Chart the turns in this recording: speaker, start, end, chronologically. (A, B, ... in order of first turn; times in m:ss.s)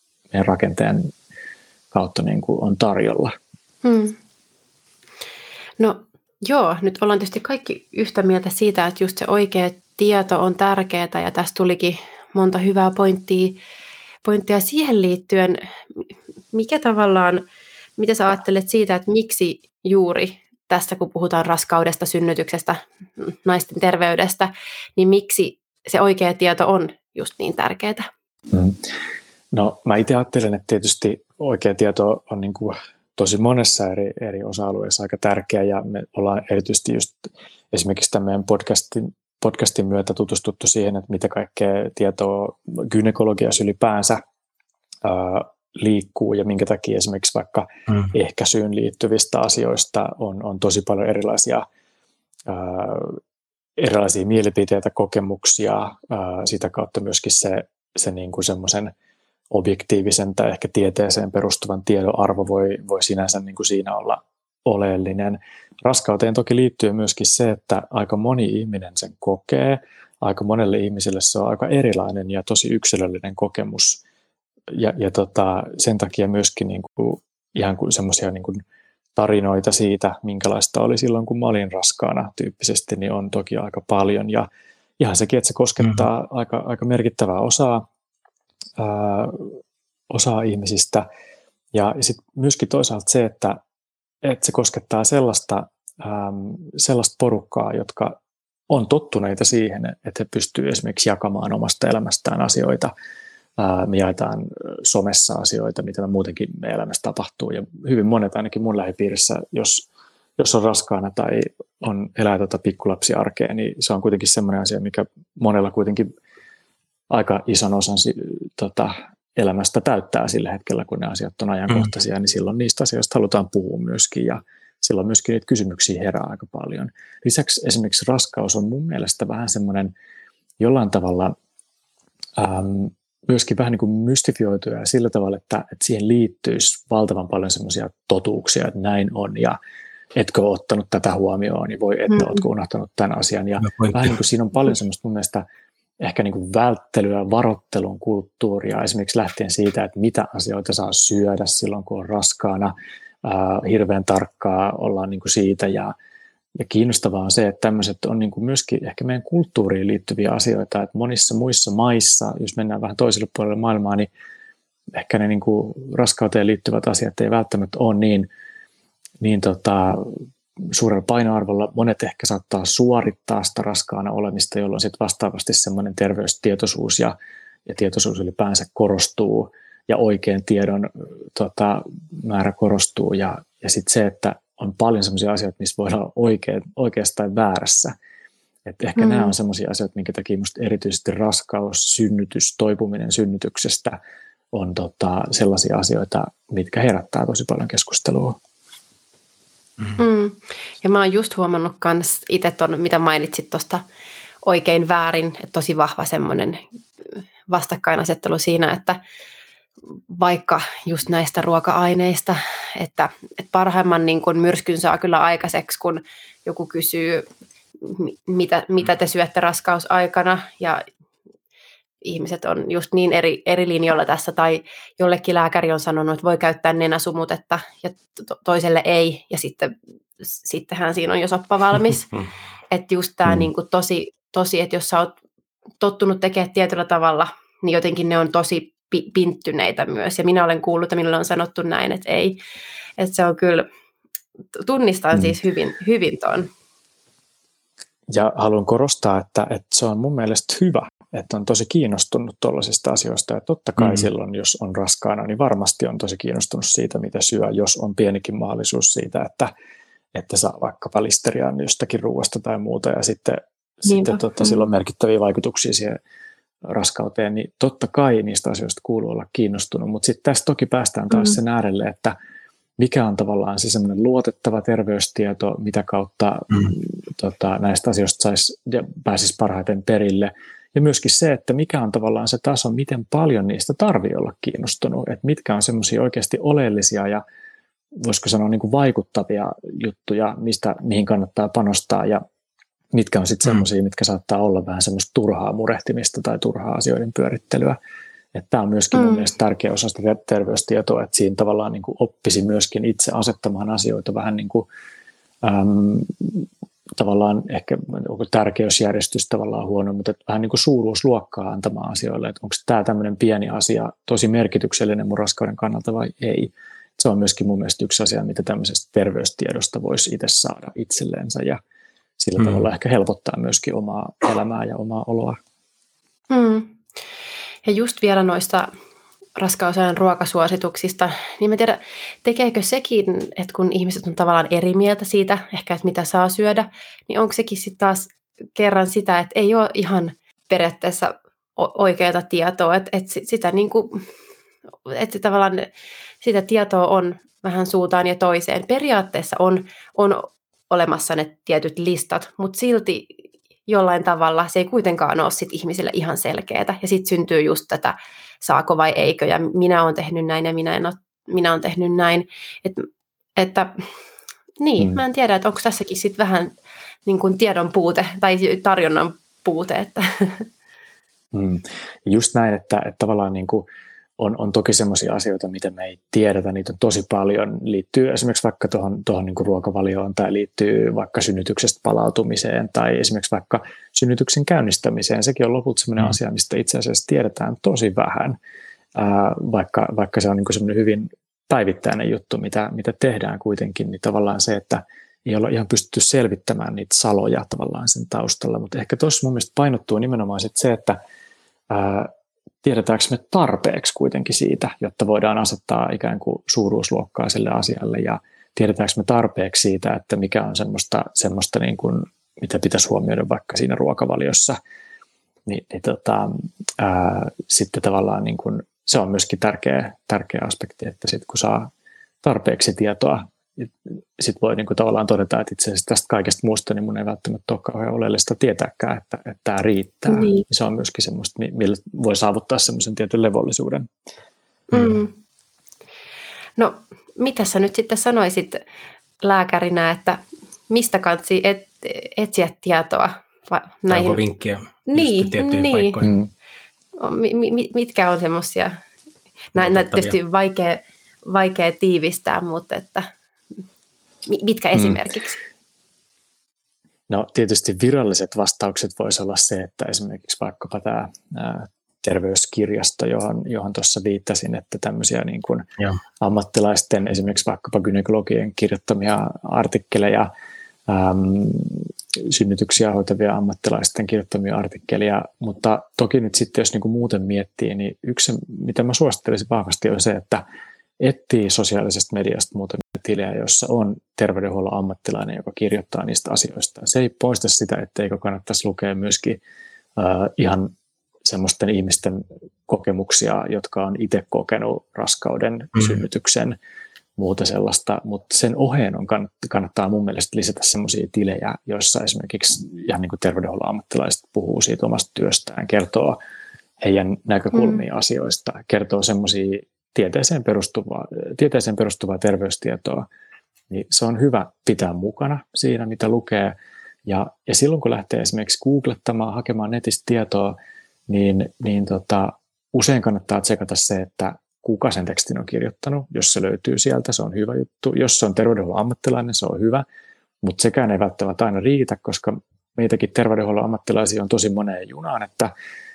0:00.3-0:01.1 A
0:01.9-0:03.3 A
0:03.8-0:04.2 B
0:05.8-0:13.6 B
0:14.2-0:17.5 B
0:18.0-0:28.1 B
0:28.5-0:28.8 A
0:29.5-0:44.2 A
0:45.0-0:51.6 A
0:52.5-0:53.2 A
0:53.8-0:58.9 A
0:59.5-1:14.0 A
1:14.7-1:18.6 A
1:19.2-1:24.5 A
1:25.0-1:27.9 A
1:28.8-1:29.6 A
1:30.1-1:31.0 A
1:31.7-1:33.6 A
1:34.2-1:38.2 A
1:38.7-1:42.9 A
1:43.6-1:49.9 A
1:50.4-1:56.1 A
1:57.1-2:09.9 A
2:10.6-2:11.4 A
2:12.4-2:19.6 A
2:20.1-2:25.4 A
2:22.1-2:22.4 B
2:23.6-2:24.0 C
2:26.0-2:35.9 A
2:36.6-2:44.1 A
2:44.9-2:48.3 A
2:49.2-2:50.2 A
2:50.7-2:57.1 A
2:57.6-3:07.9 A
3:08.6-3:14.0 A
3:09.0-3:09.3 B
3:14.5-3:18.4 A
3:20.0-3:23.8 B
3:24.4-3:26.6 B
3:27.5-3:29.0 B
3:30.1-3:37.2 B
3:37.8-3:40.8 B
3:42.0-3:52.1 B
3:52.7-3:55.1 B
3:55.8-4:02.4 B
4:03.0-4:03.7 B
4:04.6-4:06.5 B
4:08.1-4:19.5 A
4:20.1-4:26.0 A
4:23.9-4:24.6 B
4:26.6-4:32.1 A
4:32.8-4:47.2 A
4:48.0-4:52.2 A
4:52.9-4:57.8 A
4:58.3-5:04.6 A
4:58.9-4:59.3 B
5:05.4-5:21.6 A
5:22.2-5:25.4 A
5:26.3-5:26.8 B
5:27.6-5:28.7 B
5:29.4-5:44.0 B
5:44.9-5:45.7 B
5:46.2-5:53.2 B
5:53.7-6:03.9 B
6:04.6-6:06.5 B
6:07.1-6:10.5 B
6:11.3-6:13.6 A
6:14.2-6:28.4 A
6:28.9-6:41.0 A
6:41.7-6:42.1 A
6:42.6-6:54.6 A
6:55.5-7:01.7 A
7:02.2-7:13.9 A
7:10.1-7:10.4 B
7:14.7-7:15.1 B
7:16.6-7:18.6 B
7:19.2-7:24.2 B
7:23.9-7:26.1 C
7:24.9-7:25.9 B
7:26.0-7:26.3 A
7:27.0-7:28.8 B
7:29.6-7:33.1 B
7:29.6-7:30.1 C
7:34.2-7:35.4 B
7:37.1-7:45.6 A
7:46.2-7:50.3 A
7:50.9-8:00.4 A
8:01.0-8:09.4 A
8:10.0-8:10.7 A
8:11.2-8:16.6 A
8:17.2-8:26.2 A
8:26.8-8:33.1 A
8:27.6-8:27.8 B
8:33.7-8:36.6 A
8:37.1-8:40.6 A
8:41.1-8:49.8 A
8:50.4-8:55.5 A